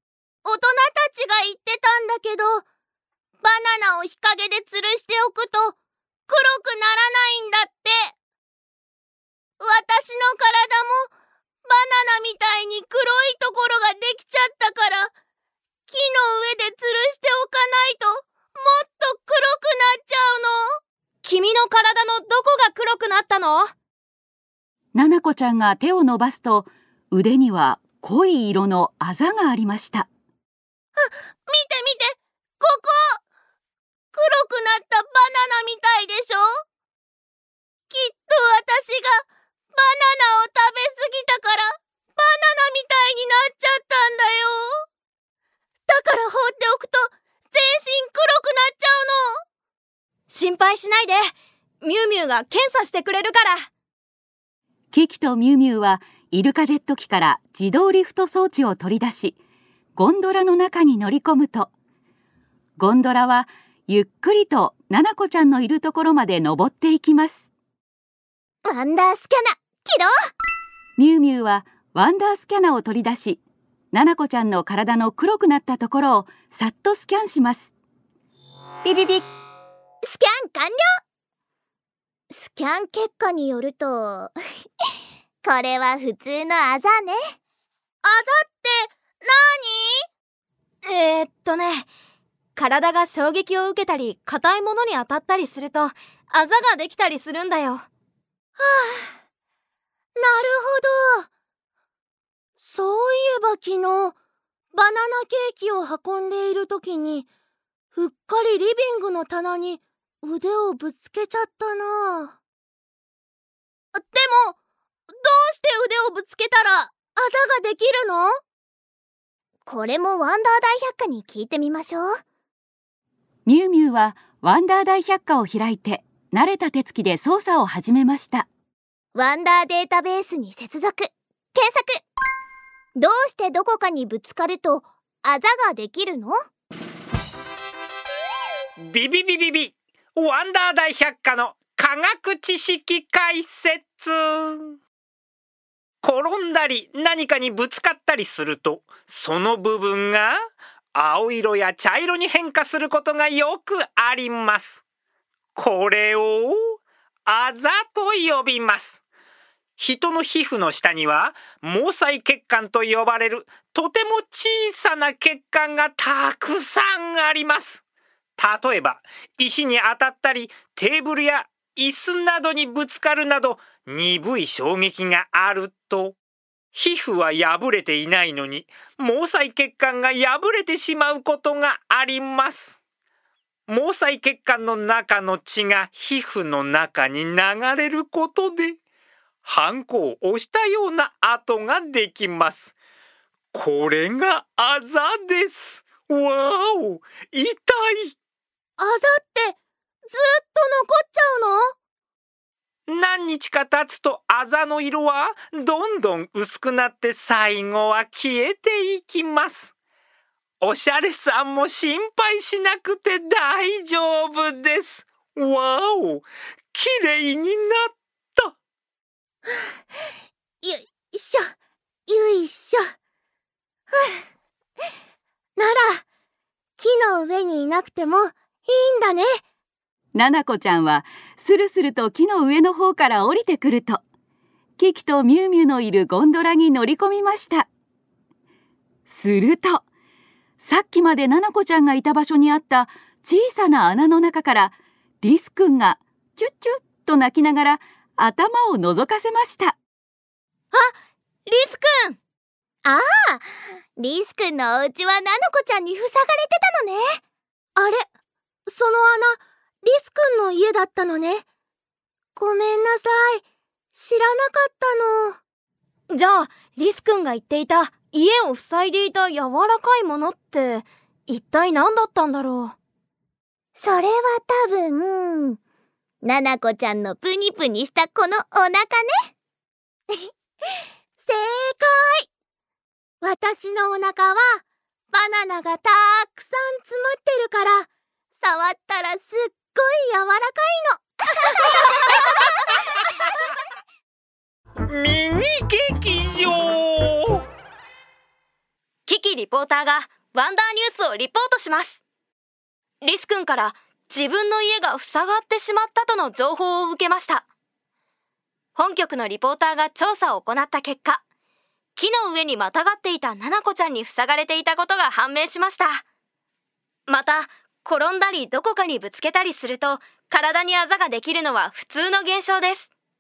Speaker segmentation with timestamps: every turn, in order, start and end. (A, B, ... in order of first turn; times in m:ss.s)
0:00.4-0:02.6 A
0:03.4-0:05.8 A
0:06.3-0:08.1 A
0:09.6-0:11.1 A
0:11.6-0:15.1 A
0:15.9-0:20.8 A
0:21.2-0:23.7 B
0:24.9-0:30.1 C
0:31.0-0:33.2 A
0:34.1-0:36.6 A
0:37.9-0:44.8 A
0:45.9-0:49.4 A
0:50.3-0:51.3 B
0:51.8-0:53.7 B
0:54.9-0:59.4 C
1:00.0-1:01.7 C
1:02.8-1:07.5 C
1:08.6-1:10.1 D
1:11.0-1:13.4 C
1:13.9-1:17.7 C
1:18.8-1:19.2 D
1:20.1-1:20.8 D
1:22.3-1:24.3 D
1:25.4-1:27.2 D
1:28.0-1:30.1 A
1:30.8-1:31.9 B
1:32.6-1:37.9 B
1:38.6-1:39.2 A
1:40.2-1:41.3 A
1:42.6-1:44.2 A
1:44.7-1:47.3 A
1:47.9-1:52.3 A
1:53.9-1:54.6 A
1:55.1-1:58.4 A
1:59.7-2:02.1 D
2:03.5-2:08.5 C
2:09.2-2:12.0 D
2:13.0-2:16.4 D
2:18.8-2:24.8 E
2:26.0-2:34.8 E
2:35.6-2:39.0 E
2:39.8-2:47.8 E
2:48.4-2:56.2 E
2:56.7-3:02.8 E
3:03.7-3:08.8 E
3:09.4-3:12.7 E
3:13.5-3:18.2 E
3:18.8-3:21.7 A
3:22.9-3:29.7 E
3:30.6-3:38.6 E
3:40.6-3:41.5 A
3:42.1-3:42.9 A
3:43.9-3:44.2 A
3:45.6-3:46.0 A
3:46.8-3:49.4 A
3:50.1-3:54.0 C
3:54.8-3:57.7 C
3:59.1-3:59.8 C
4:00.6-4:09.8 C
4:11.5-4:12.2 B
4:12.8-4:13.5 D
4:14.0-4:17.2 D
4:17.8-4:18.1 A
4:18.7-4:21.4 A
4:22.4-4:23.4 A
4:23.9-4:25.4 A
4:26.1-4:32.8 B
4:33.8-4:35.6 D
4:36.2-4:39.3 D
4:41.2-4:42.3 A
4:43.2-4:44.6 A
4:45.1-4:47.9 A
4:48.4-4:51.0 A
4:54.9-4:57.4 E
4:59.1-5:02.0 B
5:03.0-5:07.5 B
5:08.8-5:11.2 B
5:12.0-5:16.0 B
5:17.1-5:22.9 B